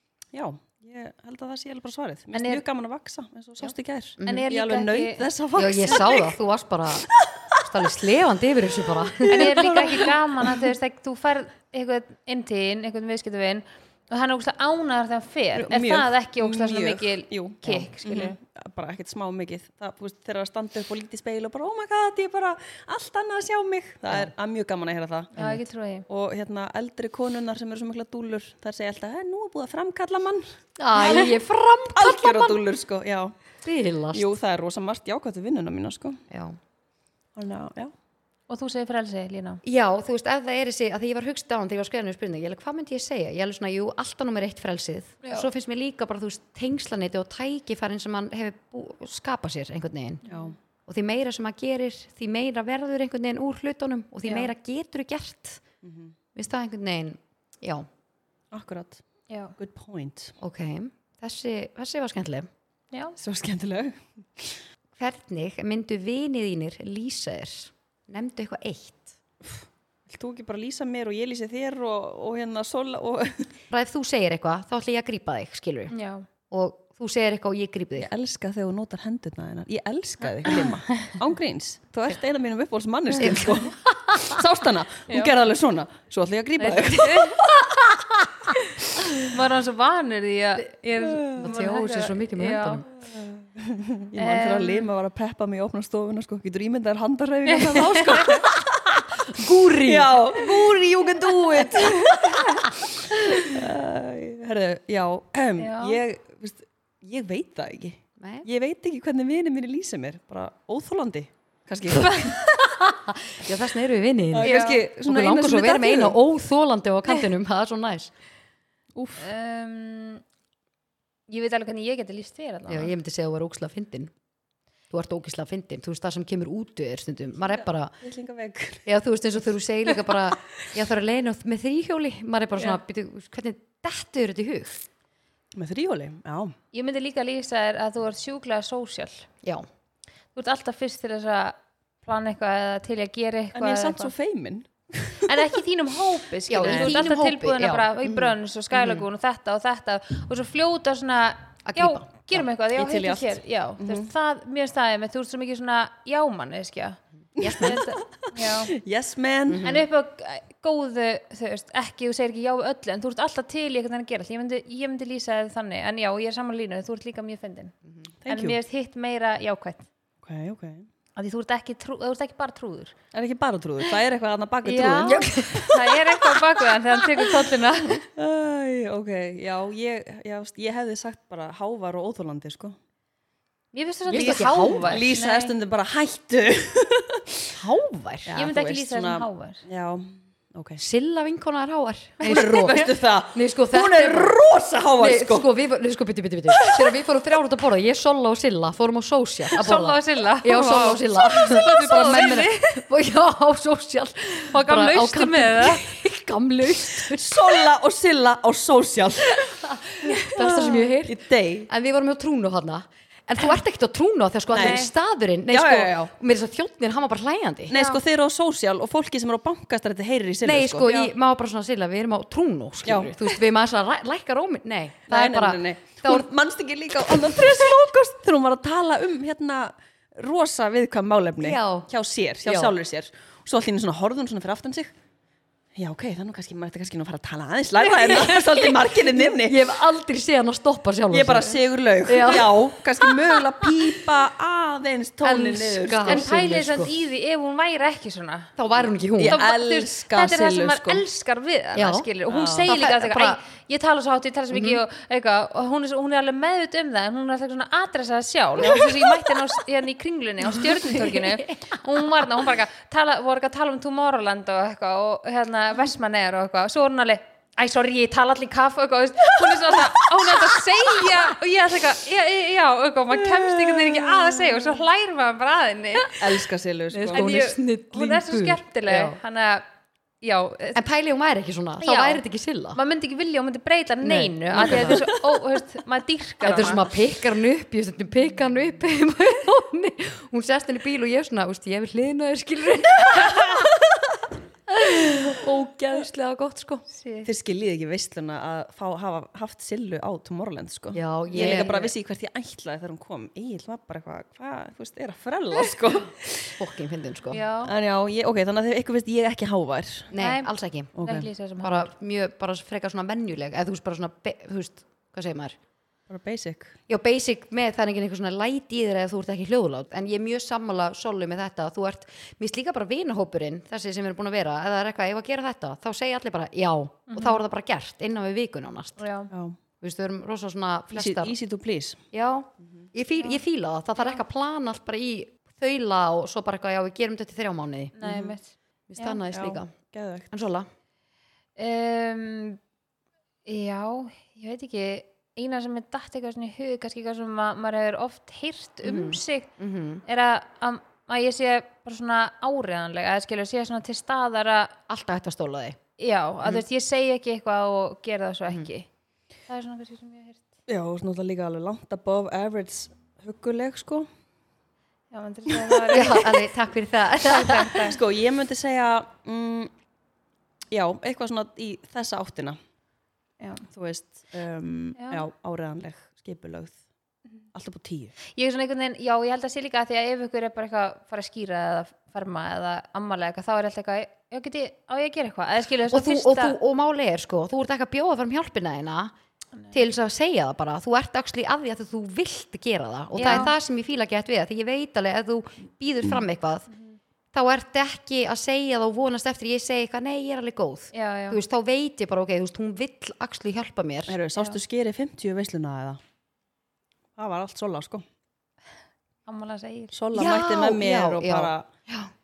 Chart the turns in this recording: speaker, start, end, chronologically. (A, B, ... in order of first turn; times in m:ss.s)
0:00.3-0:06.3 A
0:02.3-0:02.6 B
0:03.6-0:04.4 C
0:04.2-0:05.2 B
0:05.6-0:07.1 C
0:07.1-0:07.7 A
0:07.6-0:10.0 C
0:09.0-0:10.5 A
0:09.3-0:18.4 B
0:15.5-0:25.3 A
0:17.6-0:17.9 C
0:25.4-0:25.6 C
0:25.4-0:26.0 B
0:26.1-0:31.4 A
0:30.8-0:32.6 C
0:31.9-0:33.4 A
0:33.6-0:34.3 C
0:34.1-0:36.2 A
0:36.3-0:36.6 C
0:37.3-0:37.9 A
0:38.5-0:39.6 B
0:39.6-0:50.2 C
0:45.2-0:45.5 B
0:50.2-0:50.5 B
0:50.3-0:50.5 A
0:50.9-0:55.6 C
0:54.2-0:54.5 B
0:55.8-0:56.1 A
0:56.3-0:57.8 C
0:58.5-0:59.0 A
0:59.3-0:59.5 B
0:59.6-1:00.3 A
1:00.4-1:02.5 C
1:03.2-1:04.6 A
1:05.0-1:09.1 C
1:09.4-1:13.5 A
1:13.7-1:15.9 C
1:15.9-1:16.2 B
1:16.5-1:18.1 C
1:18.0-1:27.7 A
1:20.4-1:21.1 B
1:23.2-1:24.4 C
1:26.6-1:27.5 B
1:29.2-1:32.8 B
1:31.0-1:31.5 A
1:31.4-1:32.8 C
1:33.0-1:38.9 A
1:34.2-1:34.9 B
1:37.5-1:38.4 B
1:38.2-1:40.6 C
1:39.8-1:52.6 A
1:45.6-1:46.0 B
1:48.2-1:48.5 C
1:52.0-1:52.4 B
1:52.8-1:58.1 C
1:54.3-1:56.2 A
1:54.4-1:54.8 B
1:58.9-1:59.3 A
1:59.2-2:00.2 B
2:01.3-2:02.9 B
2:02.7-2:04.1 C
2:04.9-2:07.9 C
2:08.0-2:08.9 A
2:08.8-2:14.9 C
2:15.5-2:16.5 A
2:16.7-2:19.3 B
2:20.3-2:24.1 B
2:23.5-2:25.5 A
2:25.2-2:37.0 B
2:26.5-2:29.0 C
2:26.6-2:27.0 A
2:31.6-2:32.4 C
2:32.7-2:34.1 A
2:37.4-2:37.8 C
2:37.4-2:39.7 A
2:37.6-2:38.7 B
2:39.5-2:39.8 C
2:39.6-2:47.7 B
2:48.2-2:48.6 A
2:48.3-2:49.9 B
2:50.2-2:50.9 A
2:51.2-2:53.0 B
2:53.1-2:56.4 A
2:54.6-2:58.0 B
2:55.0-2:55.7 C
2:58.1-3:02.8 A
3:03.7-3:05.5 B
3:04.1-3:05.0 C
3:04.1-3:07.6 A
3:07.5-3:08.4 C
3:08.2-3:10.8 A
3:08.4-3:09.6 B
3:10.8-3:14.4 C
3:12.2-3:15.5 A
3:15.0-3:27.7 C
3:16.5-3:16.9 A
3:19.5-3:22.8 B
3:24.5-3:25.8 B
3:26.9-3:31.7 A
3:30.0-3:37.7 C
3:34.5-3:34.8 A
3:34.6-3:34.9 B
3:35.5-3:36.1 A
3:37.7-3:41.1 A
3:37.7-3:38.0 B
3:40.4-3:46.3 C
3:42.8-3:43.2 A
3:45.1-3:54.9 A
3:51.4-3:51.9 C
3:52.4-3:52.7 C
3:55.8-3:59.6 A
3:58.0-4:03.1 C
4:01.1-4:06.3 A
4:05.2-4:06.9 C
4:06.0-4:08.5 B
4:08.6-4:09.4 C
4:09.2-4:11.0 A
4:09.2-4:36.2 B
4:11.7-4:12.1 C
4:12.3-4:12.7 A
4:12.6-4:13.4 C
4:14.5-4:14.8 C
4:18.6-4:18.9 C
4:20.4-4:22.2 C
4:33.2-4:34.6 A
4:36.1-4:37.4 A
4:36.9-4:39.2 C
4:37.1-4:39.6 B
4:40.2-4:40.8 B
4:40.7-4:42.8 C
4:41.8-4:42.2 B
4:42.7-4:46.9 B
4:44.0-4:45.0 C
4:44.5-4:45.2 A
4:46.4-4:53.8 C
4:54.7-4:56.8 C
4:56.9-4:57.3 B
4:57.2-5:06.6 A
5:00.9-5:01.9 C
5:01.3-5:01.9 B
5:06.6-5:07.4 C
5:07.3-5:07.7 B
5:07.6-5:10.1 A
5:10.1-5:11.0 C
5:10.2-5:10.5 B
5:11.0-5:11.3 A
5:11.0-5:11.9 B
5:11.6-5:15.6 C
5:16.1-5:16.8 A
5:16.9-5:29.0 C
5:27.1-5:27.4 B
5:29.0-5:29.3 B
5:29.3-5:29.6 A
5:29.8-5:31.3 C
5:30.9-5:32.0 A
5:32.1-5:38.0 C
5:38.0-5:39.2 B
5:38.0-5:38.3 A
5:38.9-5:39.7 C
5:39.3-5:40.3 A
5:40.3-5:40.7 C
5:41.6-5:42.6 B
5:43.4-5:49.5 B
5:48.8-5:50.0 C
5:50.0-5:54.7 B
5:54.9-5:55.8 C
5:56.0-5:58.9 B
5:59.5-6:00.4 B
6:00.7-6:04.1 A
6:05.1-6:06.4 B
6:05.6-6:06.0 A
6:05.9-6:07.9 C
6:07.2-6:08.0 B
6:07.8-6:09.7 A
6:10.7-6:12.6 A
6:13.4-6:13.6 B
6:13.7-6:16.8 A
6:15.0-6:15.2 B
6:17.5-6:18.2 A
6:18.3-6:26.6 B
6:25.9-6:29.1 C
6:29.7-6:36.7 C
6:33.1-6:33.5 B
6:36.7-6:37.0 B
6:37.3-6:44.2 C
6:40.9-6:41.4 B
6:44.1-6:46.0 A
6:47.2-6:48.0 A
6:49.3-6:49.9 B
6:49.9-6:51.7 A
6:50.1-6:52.1 C